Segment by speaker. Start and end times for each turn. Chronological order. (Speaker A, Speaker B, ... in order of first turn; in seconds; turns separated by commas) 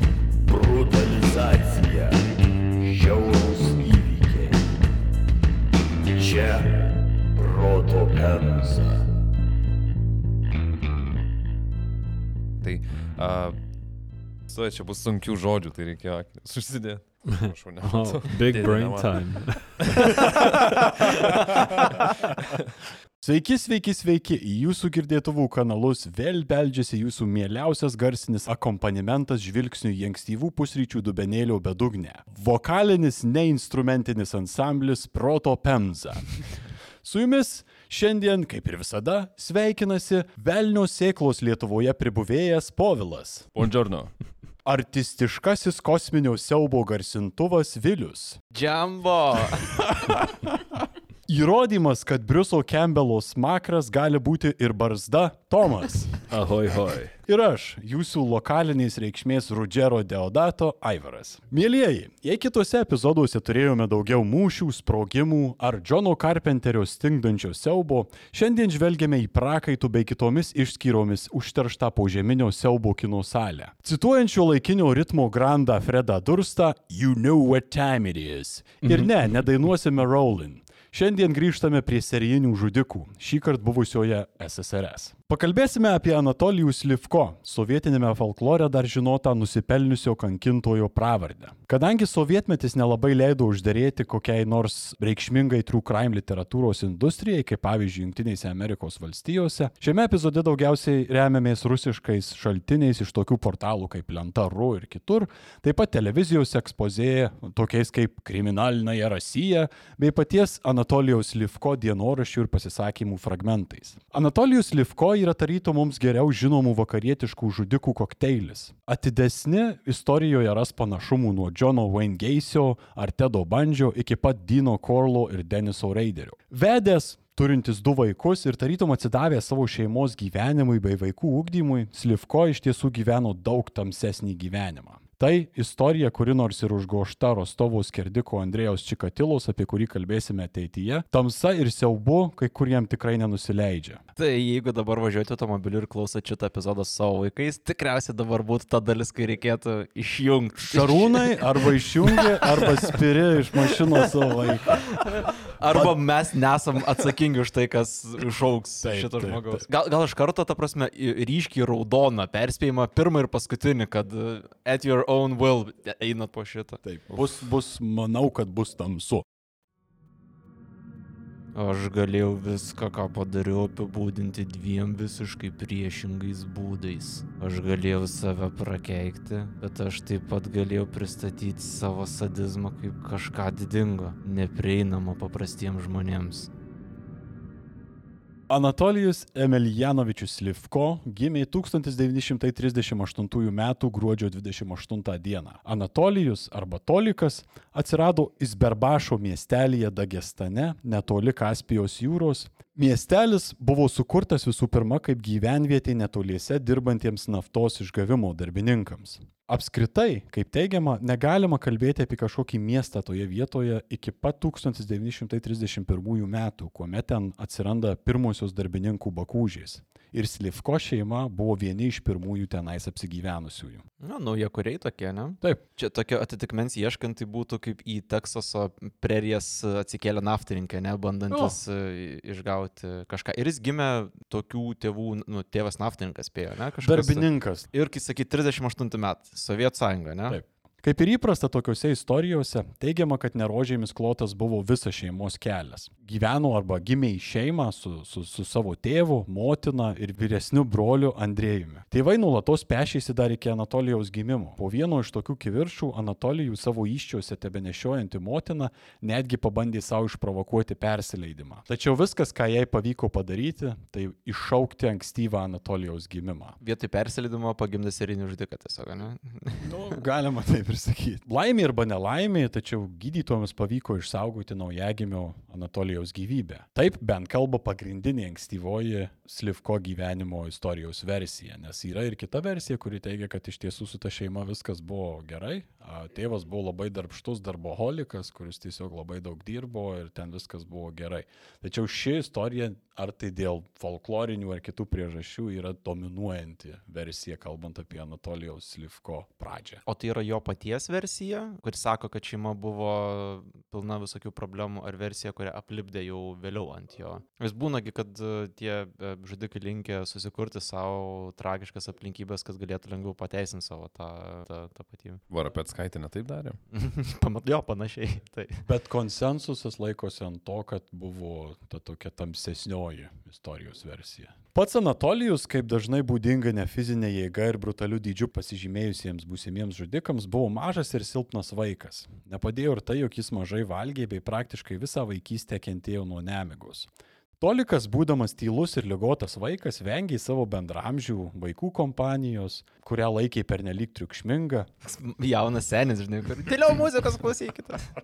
Speaker A: 0.4-4.7, Speaker A: 6.1-9.1, Speaker B: 12.6-13.7, Speaker B: 14.5-21.6, Speaker C: 17.8-20.1, Speaker A: 23.2-43.5, Speaker B: 43.5-44.1, Speaker A: 44.6-48.4, Speaker D: 48.5-50.0, Speaker A: 49.9-50.5, Speaker A: 51.3-56.2, Speaker C: 56.3-57.1, Speaker A: 57.3-144.0, Speaker C: 78.8-79.1, Speaker D: 144.2-152.9, Speaker A: 150.7-155.0, Speaker D: 153.6-167.3, Speaker A: 155.6-156.0, Speaker A: 158.8-159.6, Speaker A: 166.8-169.3, Speaker D: 171.5-186.5, Speaker A: 188.5-223.8, Speaker D: 224.0-240.4, Speaker A: 231.3-231.6, Speaker A: 236.8-237.7, Speaker A: 240.3-266.6, Speaker D: 266.6-270.0, Speaker A: 269.6-299.8, Speaker D: 299.9-315.2, Speaker B: 315.3-316.6, Speaker D: 316.7-318.7, Speaker A: 318.6-336.9, Speaker A: 337.4-344.7, Speaker D: 344.8-347.9